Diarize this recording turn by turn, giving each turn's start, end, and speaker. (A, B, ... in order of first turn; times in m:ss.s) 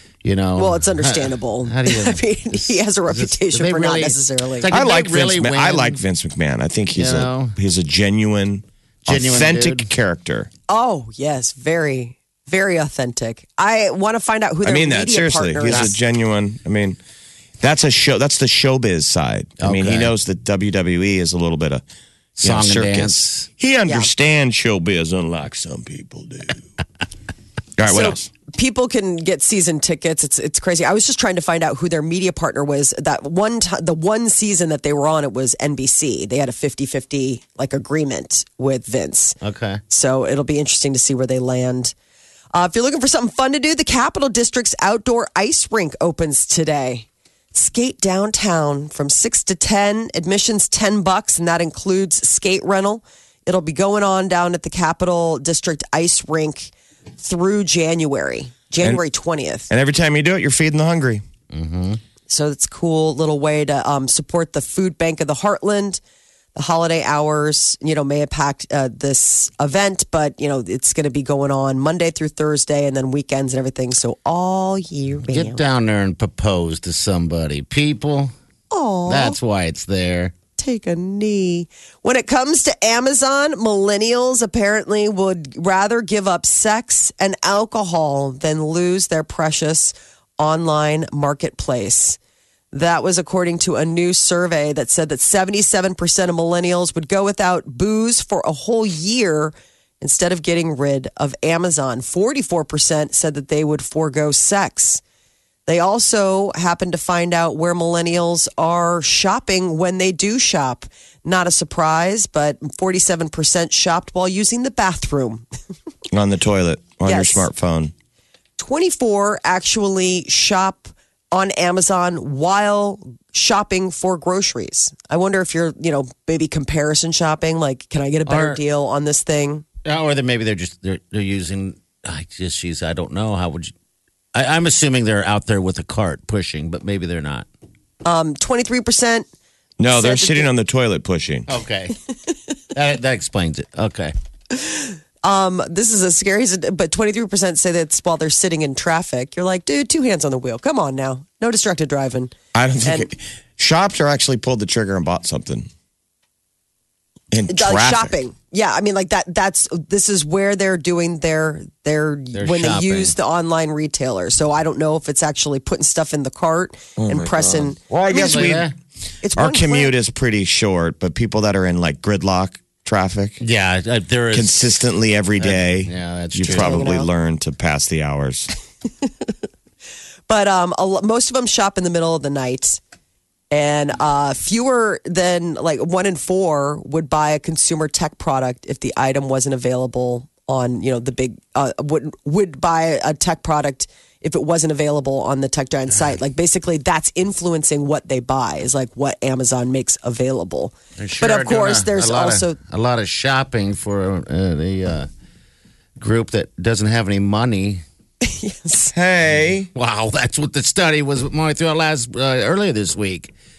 0:00.2-0:06.0 A
0:00.6-0:04.7 B
0:04.7-0:10.5 C
0:06.9-0:07.5 A
0:09.0-0:09.9 A
0:10.7-0:15.9 B
0:14.6-0:17.0 C
0:15.7-0:15.9 A
0:17.6-0:21.8 C
0:19.6-0:20.1 A
0:22.4-0:23.5 A
0:22.4-0:26.6 C
0:27.8-0:28.3 C
0:27.9-0:39.4 B
0:39.4-0:39.8 A
0:39.9-0:41.9 B
0:42.5-0:59.7 B
0:59.7-1:01.2 C
1:01.5-1:02.0 A
1:02.3-1:06.0 B
1:06.6-1:15.6 B
1:15.3-1:18.3 A
1:18.7-1:19.4 B
1:19.1-1:20.3 A
1:20.6-1:32.2 B
1:32.7-1:45.0 B
1:45.6-1:55.4 B
1:56.1-1:57.9 C
1:57.0-1:57.5 B
1:58.6-2:09.6 B
2:08.3-2:08.6 A
2:09.8-2:13.7 A
2:14.3-2:17.5 A
2:18.0-2:19.2 B
2:19.8-2:21.5 C
2:19.9-2:20.5 B
2:21.5-2:21.9 A
2:22.7-2:24.1 A
2:24.5-2:32.3 B
2:32.5-2:35.7 C
2:32.8-2:33.1 B
2:37.3-2:38.2 C
2:37.5-2:47.8 B
2:42.3-2:43.1 A
2:47.0-2:48.7 C
2:47.9-2:48.7 A
2:49.2-2:49.9 B
2:49.4-2:53.4 C
2:53.4-2:54.7 A
2:54.3-2:58.5 C
2:55.4-2:56.9 A
2:56.5-2:57.1 B
3:00.3-3:02.8 B
3:03.5-3:22.6 B
3:21.0-3:25.1 A
3:26.0-3:27.8 A
3:28.2-3:28.9 B
3:28.9-3:29.7 C
3:29.7-3:33.3 A